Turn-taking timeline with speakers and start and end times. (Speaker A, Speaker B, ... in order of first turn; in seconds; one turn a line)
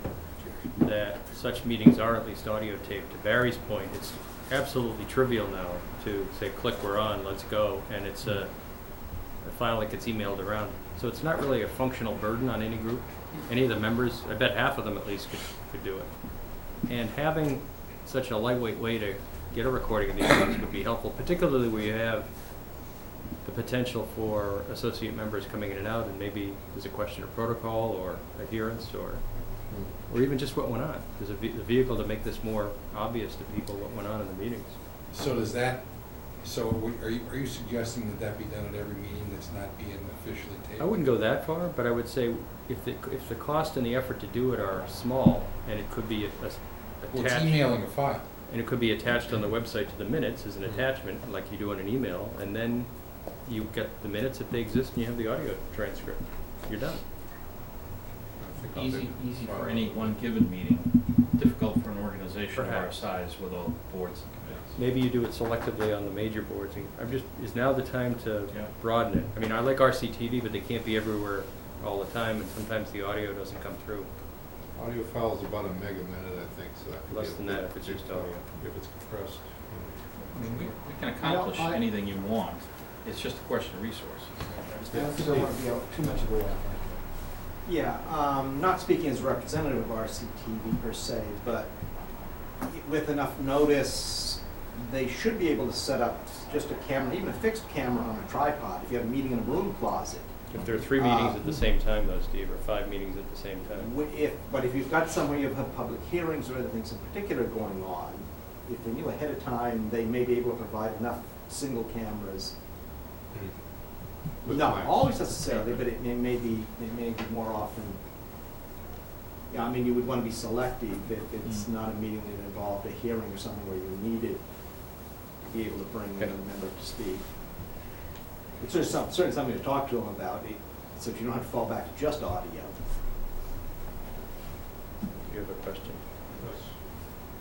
Speaker A: 0.8-22.9
Speaker A: 23.4-29.5
Speaker A: 30.1-34.8
Speaker B: 35.1-41.1
Speaker A: 40.8-57.0
Speaker B: 47.1-48.3
Speaker C: 58.4-60.3
Speaker D: 58.7-64.7
Speaker A: 62.5-63.0
Speaker A: 64.8-74.1
Speaker C: 74.8-80.7
Speaker A: 77.1-78.4
Speaker D: 80.3-84.8
Speaker E: 81.2-81.8
Speaker C: 84.8-85.6
Speaker E: 84.9-87.0
Speaker F: 87.7-91.7
Speaker F: 92.6-100.3
Speaker A: 100.5-103.9
Speaker F: 100.9-101.4
Speaker F: 103.7-112.5
Speaker C: 114.2-115.2
Speaker F: 114.4-118.0
Speaker D: 115.4-115.9
Speaker F: 119.5-124.4
Speaker F: 125.5-127.3
Speaker F: 128.6-132.8
Speaker A: 135.2-136.0
Speaker C: 136.4-137.1